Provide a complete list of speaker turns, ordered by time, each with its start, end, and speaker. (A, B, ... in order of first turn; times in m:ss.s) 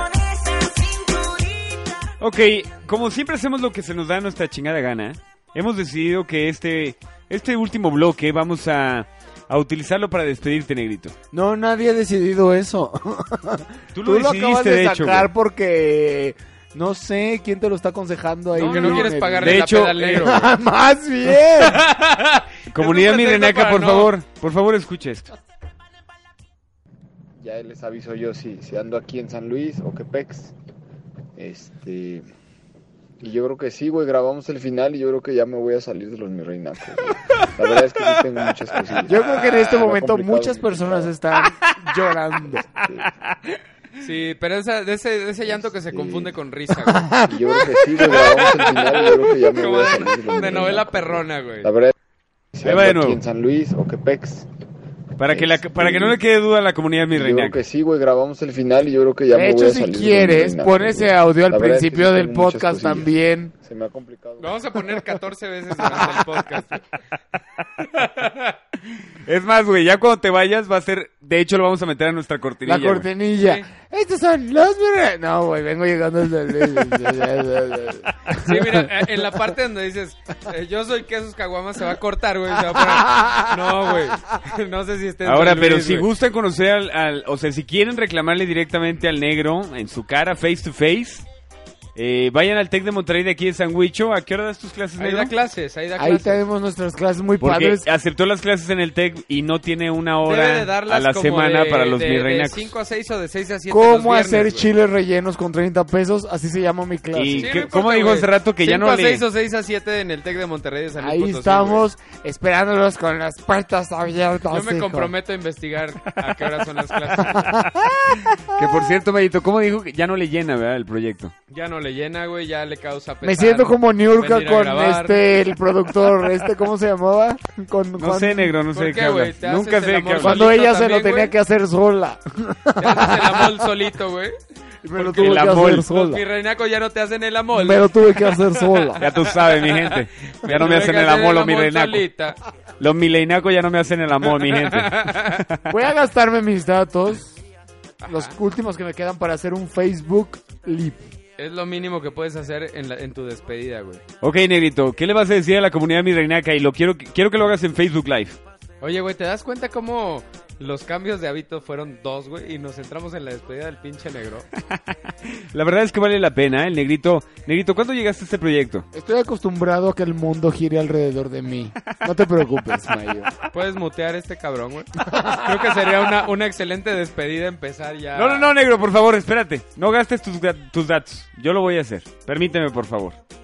0:02.2-0:11.2 A
0:11.3-0:21.8 B
0:13.9-0:15.3 A
0:18.6-0:20.5 C
0:18.6-0:20.4 A
0:21.6-0:24.1 C
0:22.7-0:25.3 A
0:27.4-0:30.5 D
0:31.4-0:32.3 D
0:33.2-0:41.1 D
0:39.0-0:42.7 B
0:44.0-0:47.2 C
0:45.9-0:46.3 D
0:47.0-0:47.3 B
0:47.3-0:51.9 D
0:48.1-0:51.7 C
0:52.5-0:54.5 D
0:52.6-0:53.2 A
0:55.2-0:57.6 A
0:55.3-0:56.2 D
0:57.1-1:04.6 D
0:59.3-1:03.5 B
1:04.4-1:06.8 C
1:07.9-1:08.6 C
1:09.3-1:13.1 A
1:12.6-1:18.8 B
1:13.4-1:13.7 C
1:18.4-1:26.1 C
1:23.1-1:23.4 B
1:25.2-1:31.3 A
1:32.0-1:35.3 A
1:35.0-1:36.4 C
1:36.0-1:37.9 B
1:37.4-1:42.7 A
1:40.3-1:44.7 C
1:43.7-1:47.6 B
1:47.1-1:49.2 A
1:47.4-1:51.8 C
1:51.0-1:55.1 B
1:54.5-1:57.7 C
1:57.3-1:58.2 B
1:58.5-2:01.3 A
2:01.5-2:05.2 C
2:03.2-2:08.6 B
2:08.0-2:10.5 A
2:08.7-2:11.4 C
2:10.2-2:13.4 B
2:12.8-2:14.4 C
2:14.8-2:16.2 B
2:15.0-2:22.4 C
2:15.1-2:15.9 A
2:17.5-2:19.0 B
2:19.0-2:22.0 A
2:22.8-2:25.6 A
2:24.4-2:25.4 C
2:25.7-2:27.4 B
2:28.0-2:28.3 C
2:28.1-2:31.0 B
2:31.4-2:34.0 C
2:34.2-2:38.4 A
2:38.8-2:44.5 C
2:44.7-2:48.9 A
2:48.9-2:53.3 B
2:53.5-2:58.5 C
2:55.1-2:55.4 B
2:58.1-3:03.2 A